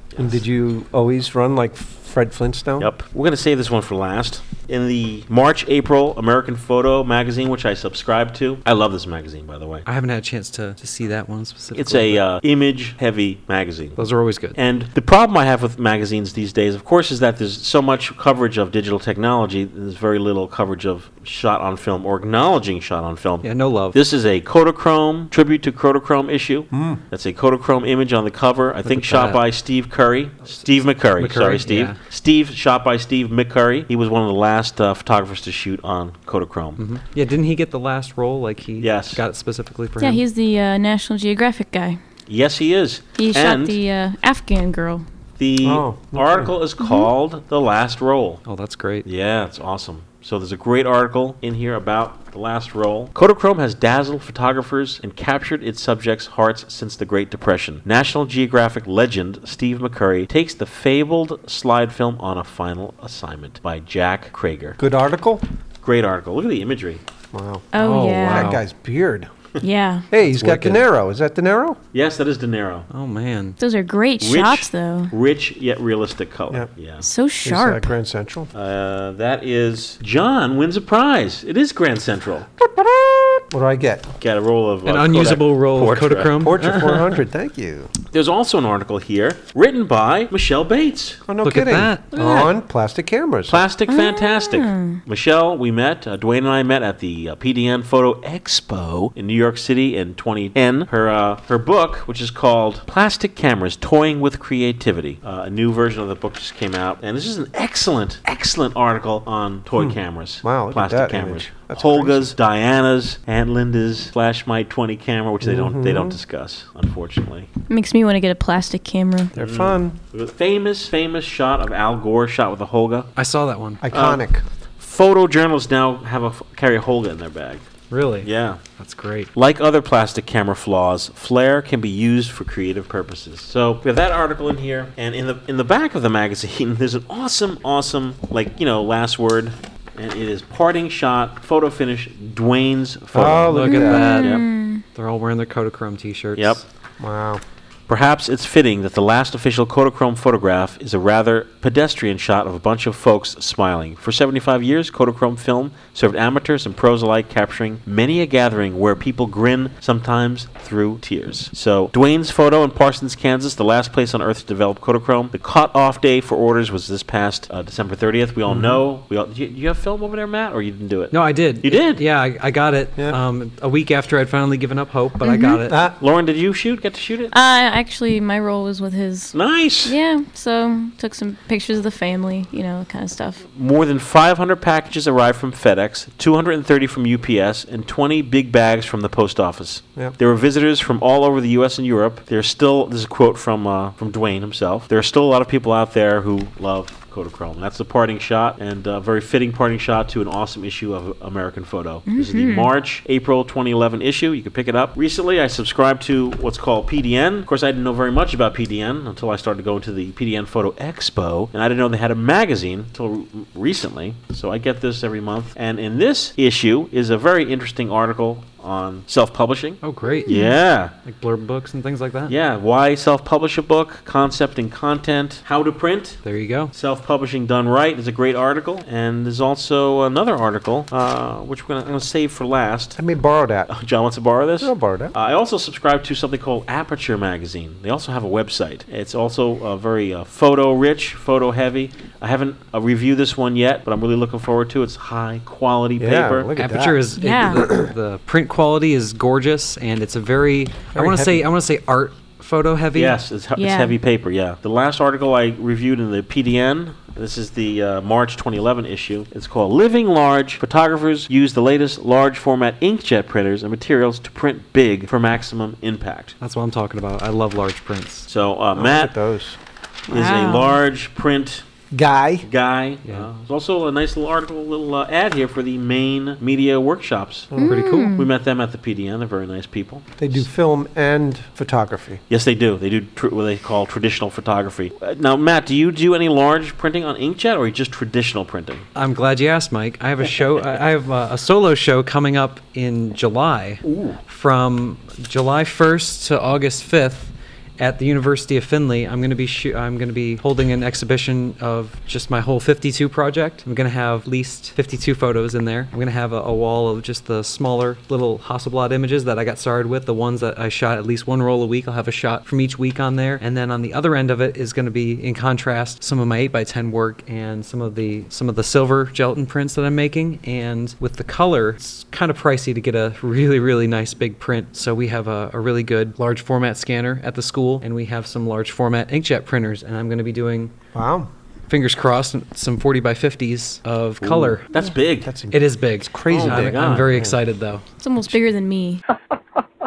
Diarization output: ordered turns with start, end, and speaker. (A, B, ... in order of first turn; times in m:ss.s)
0:00.1-0:00.4 A
0:00.2-0:02.9 B
0:02.8-0:09.9 A
0:09.9-0:12.2 C
0:11.7-0:14.0 A
0:14.0-0:14.6 C
0:14.5-0:36.8 A
0:23.4-0:24.0 C
0:26.7-0:27.0 B
0:28.8-0:29.4 C
0:31.2-0:32.0 C
0:36.8-0:40.2 C
0:38.8-0:39.2 A
0:40.0-0:42.0 D
0:42.3-0:43.8 A
0:43.2-0:45.0 D
0:45.4-0:48.4 A
0:45.6-0:46.5 B
0:46.8-0:47.1 D
0:48.5-0:49.1 C
0:49.0-1:04.8 A
1:04.8-1:05.4 B
1:05.8-1:07.0 A
1:07.3-1:09.3 B
1:07.7-1:08.6 D
1:07.8-1:08.6 C
1:09.6-1:10.1 D
1:10.1-1:11.8 B
1:10.3-1:10.8 C
1:11.9-1:12.9 A
1:12.9-1:13.6 C
1:13.6-1:15.1 D
1:14.2-1:17.0 A
1:17.0-1:17.9 D
1:17.4-1:18.5 B
1:18.5-1:22.5 A
1:22.6-1:24.1 B
1:24.2-1:26.4 A
1:24.9-1:27.1 C
1:26.4-1:27.9 B
1:28.1-1:31.2 A
1:31.3-1:33.6 B
1:31.4-1:32.5 C
1:33.5-1:57.5 A
1:33.9-1:35.0 D
1:49.8-1:52.4 B
1:55.4-1:56.2 B
1:57.7-1:59.3 D
1:59.4-2:00.0 B
1:59.4-2:03.1 A
2:03.2-2:03.8 C
2:03.8-2:04.4 B
2:03.9-2:04.2 A
2:04.8-2:07.6 A
2:07.9-2:09.3 C
2:08.2-2:08.6 A
2:09.4-2:24.4 A
2:23.1-2:24.2 B
2:23.5-2:24.4 C
2:23.6-2:24.8 D
2:25.0-2:26.6 C
2:26.4-2:26.6 A
2:27.0-2:27.4 B
2:27.9-2:52.0 A
2:48.5-2:48.8 B
2:51.1-2:55.8 C
2:55.2-2:55.6 D
2:55.7-2:55.9 B
2:56.0-2:57.3 A
2:57.3-3:03.4 D
2:59.3-3:00.0 A
3:03.5-3:40.9 A
3:22.1-3:22.7 D
3:39.8-3:40.4 C
3:40.2-3:40.5 D
3:41.0-3:42.3 C
3:42.3-3:46.2 A
3:46.2-3:46.7 C
3:46.7-3:53.0 A
3:53.0-3:53.7 B
3:53.7-4:06.5 A
3:54.6-3:55.1 B
4:06.0-4:07.9 B
4:06.6-4:13.2 C
4:07.2-4:07.7 D
4:10.9-4:11.4 B
4:12.9-4:26.4 A
4:13.6-4:14.0 D
4:26.4-4:28.3 C
4:28.3-4:29.1 A
4:28.8-4:29.6 B
4:30.1-4:30.8 D
4:30.1-4:31.6 A
4:31.9-4:32.5 B
4:32.4-4:37.5 A
4:37.5-4:37.8 B
4:37.6-4:38.3 D
4:37.6-4:38.2 C
4:38.1-4:40.4 A
4:40.2-4:42.2 B
4:42.3-4:48.9 A
4:49.0-5:30.7 C
4:53.8-4:54.2 A
5:30.9-5:31.3 B
5:31.7-5:34.7 C
5:34.2-5:35.3 A
5:35.2-5:37.4 B
5:35.5-5:37.8 C
5:36.3-5:37.1 A
5:38.0-5:39.0 D